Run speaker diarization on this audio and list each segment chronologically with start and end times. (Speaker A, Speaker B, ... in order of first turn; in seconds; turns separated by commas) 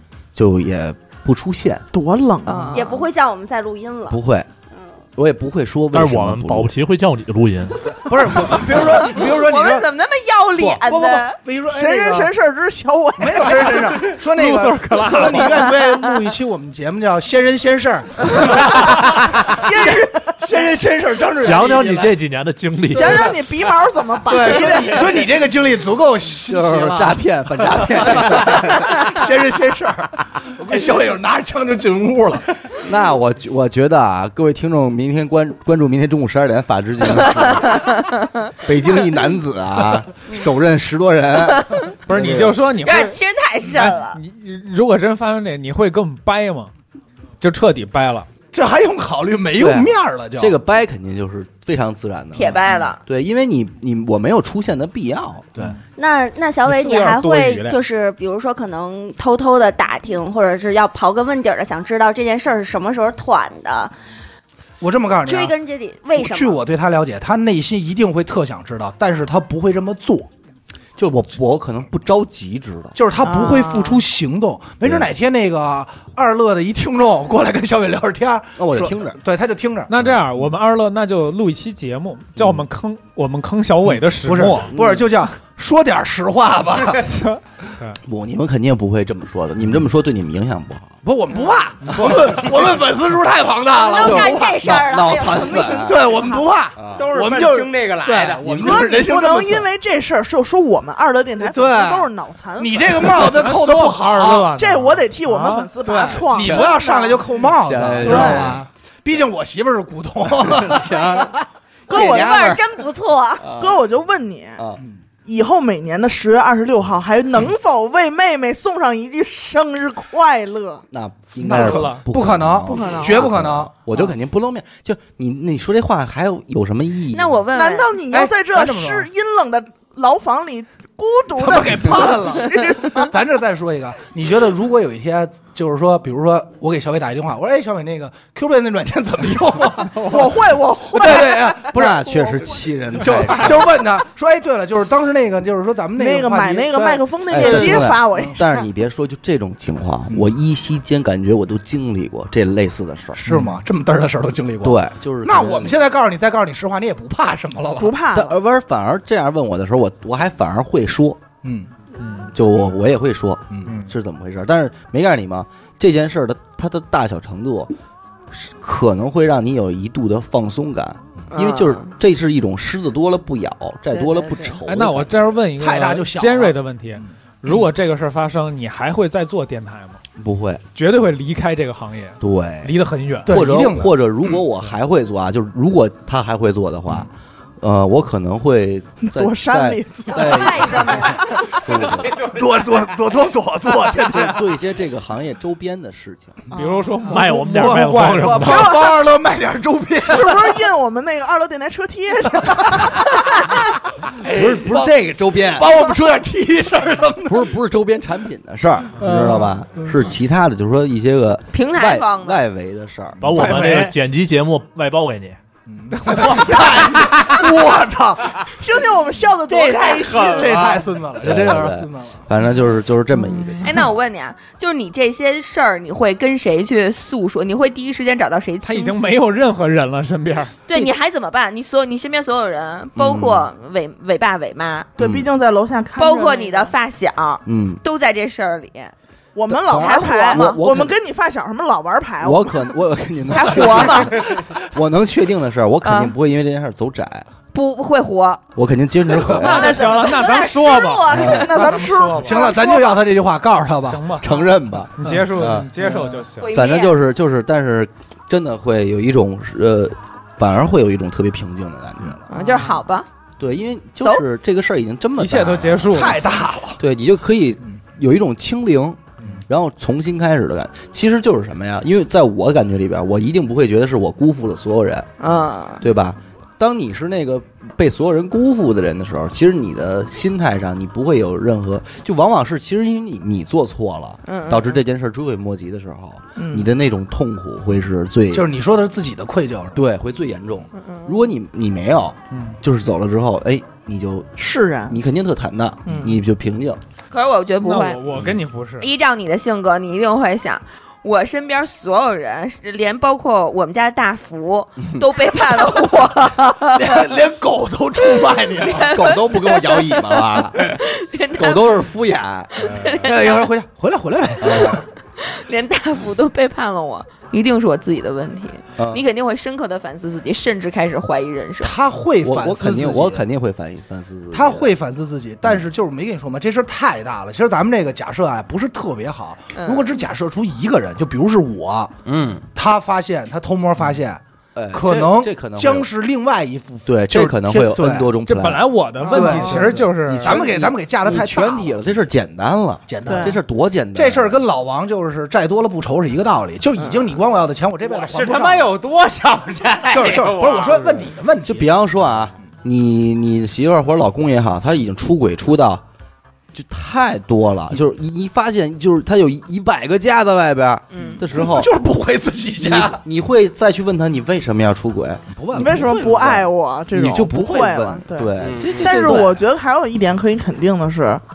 Speaker A: 0.3-1.8, Speaker B: 1.9-2.8, Speaker C: 2.5-3.1, Speaker D: 2.7-4.2, Speaker A: 4.1-4.5, Speaker A: 5.2-6.7, Speaker E: 5.9-7.8, Speaker F: 7.9-9.9, Speaker C: 9.0-11.4, Speaker F: 10.6-12.3, Speaker B: 11.7-13.9, Speaker F: 13.2-22.2, Speaker G: 14.3-15.7, Speaker B: 19.4-20.6, Speaker E: 21.4-23.6, Speaker B: 22.9-25.3, Speaker F: 24.3-32.6, Speaker A: 26.5-29.0, Speaker A: 32.8-37.9, Speaker A: 38.6-42.2, Speaker G: 42.1-46.7, Speaker C: 42.8-44.2, Speaker G: 47.4-48.3, Speaker F: 48.5-50.5, Speaker A: 49.6-55.5, Speaker C: 52.4-53.0, Speaker D: 56.0-63.9, Speaker G: 56.6-57.8, Speaker F: 64.8-65.5, Speaker D: 65.2-66.6, Speaker F: 66.1-70.3, Speaker A: 71.0-73.0, Speaker F: 73.0-79.9, Speaker B: 73.2-74.0, Speaker A: 74.8-75.1, Speaker A: 78.6-79.2, Speaker G: 79.9-84.7, Speaker A: 80.0-80.4, Speaker A: 82.4-82.6, Speaker F: 83.9-87.1, Speaker A: 84.7-85.1, Speaker G: 87.0-88.0, Speaker A: 88.0-91.0, Speaker F: 91.0-95.0, Speaker G: 91.9-92.2, Speaker D: 93.7-96.0, Speaker A: 94.0-97.1, Speaker F: 95.7-99.7, Speaker H: 97.0-99.0, Speaker A: 98.4-98.9, Speaker B: 98.6-103.0, Speaker F: 101.4-104.6, Speaker G: 103.1-105.8, Speaker B: 104.5-107.3, Speaker F: 105.8-111.5, Speaker A: 106.3-106.8, Speaker A: 107.4-108.6, Speaker B: 108.0-108.6, Speaker A: 110.4-111.3, Speaker B: 111.9-112.6, Speaker A: 111.9-112.7, Speaker D: 111.9-113.5, Speaker A: 113.4-113.8, Speaker B: 113.5-114.6, Speaker A: 114.6-114.8, Speaker B: 115.2-120.8, Speaker A: 120.9-127.4, Speaker F: 121.4-123.7, Speaker G: 121.5-122.1, Speaker B: 122.7-123.3, Speaker C: 127.1-128.0, Speaker B: 127.5-133.1, Speaker F: 128.1-129.1, Speaker F: 131.4-142.1, Speaker B: 140.0-142.6, Speaker A: 141.6-143.8, Speaker F: 143.0-148.4, Speaker B: 146.0-148.4, Speaker A: 147.3-153.4, Speaker F: 153.2-158.0, Speaker A: 154.6-155.8, Speaker B: 157.8-158.4, Speaker A: 158.1-161.2, Speaker F: 161.4-161.7, Speaker G: 162.0-162.3, Speaker A: 162.3-167.7, Speaker A: 168.3-175.3, Speaker C: 171.3-171.9, Speaker C: 173.9-174.6, Speaker G: 174.7-180.0, Speaker F: 175.6-177.6, Speaker A: 180.2-180.6, Speaker G: 180.7-183.4, Speaker A: 182.2-192.3, Speaker F: 183.2-184.4, Speaker B: 189.0-190.9, Speaker D: 190.2-191.3, Speaker F: 190.8-191.6, Speaker F: 192.2-194.4, Speaker A: 193.8-196.4, Speaker G: 196.5-198.6, Speaker B: 196.5-198.9, Speaker E: 197.1-198.9, Speaker F: 198.2-200.6, Speaker B: 200.1-203.1, Speaker F: 202.4-203.5, Speaker F: 204.1-207.5, Speaker A: 204.3-205.8, Speaker A: 207.2-213.3, Speaker F: 209.0-210.0, Speaker C: 211.5-212.4, Speaker E: 213.2-215.4, Speaker G: 213.3-214.0, Speaker F: 215.7-218.5, Speaker G: 216.1-216.8, Speaker B: 216.5-217.0, Speaker B: 218.6-220.7, Speaker C: 219.5-220.5, Speaker F: 219.8-222.2, Speaker H: 220.3-220.8, Speaker A: 221.2-223.9, Speaker C: 223.6-229.1, Speaker G: 228.6-230.5, Speaker C: 230.7-234.9, Speaker A: 233.0-233.5, Speaker B: 235.0-236.7, Speaker A: 235.0-235.3, Speaker C: 236.0-238.9, Speaker A: 237.5-237.8, Speaker B: 239.3-242.7, Speaker A: 239.5-241.0, Speaker C: 239.8-240.6, Speaker A: 242.2-247.3, Speaker C: 243.3-244.2, Speaker C: 245.8-246.1, Speaker C: 247.5-248.4, Speaker A: 248.6-249.8, Speaker C: 249.3-250.3, Speaker G: 249.3-252.4, Speaker D: 249.6-251.4, Speaker A: 251.1-251.5, Speaker B: 251.3-253.0, Speaker F: 252.2-254.2, Speaker G: 253.8-254.3, Speaker A: 254.2-255.7, Speaker G: 255.0-256.5, Speaker F: 255.0-255.3, Speaker F: 255.8-256.2, Speaker D: 256.4-257.0, Speaker A: 256.5-262.3, Speaker C: 262.3-263.1, Speaker A: 263.4-266.1, Speaker G: 265.2-266.2, Speaker F: 265.9-266.8, Speaker A: 266.8-275.1, Speaker C: 275.2-275.8, Speaker A: 275.8-288.5, Speaker C: 284.3-284.8, Speaker B: 286.4-286.7, Speaker F: 288.3-289.8, Speaker A: 289.7-296.8, Speaker C: 290.8-291.1, Speaker G: 292.3-292.6, Speaker B: 294.4-295.0, Speaker B: 295.9-296.1, Speaker C: 297.1-298.1, Speaker G: 297.6-298.9, Speaker C: 298.8-307.1, Speaker F: 306.7-309.0, Speaker C: 308.6-311.8, Speaker A: 308.8-310.8, Speaker A: 311.3-313.1, Speaker C: 312.6-313.5, Speaker F: 313.0-314.8, Speaker A: 314.4-314.9, Speaker C: 315.2-321.8, Speaker A: 318.8-319.0, Speaker F: 321.6-323.2, Speaker A: 322.2-324.7, Speaker F: 324.3-331.9, Speaker C: 329.5-330.0, Speaker A: 332.1-332.5, Speaker F: 332.6-338.1, Speaker A: 334.6-335.9, Speaker A: 336.9-344.4, Speaker G: 338.2-340.3, Speaker F: 339.1-341.8, Speaker F: 342.9-343.4, Speaker B: 343.1-343.4, Speaker F: 343.9-348.8, Speaker H: 347.8-351.1, Speaker F: 349.9-351.7, Speaker A: 351.4-355.8, Speaker A: 356.5-361.7, Speaker C: 360.9-361.2, Speaker F: 361.3-363.0, Speaker A: 362.6-369.4, Speaker F: 365.3-366.0, Speaker B: 365.5-371.2, Speaker H: 368.4-369.1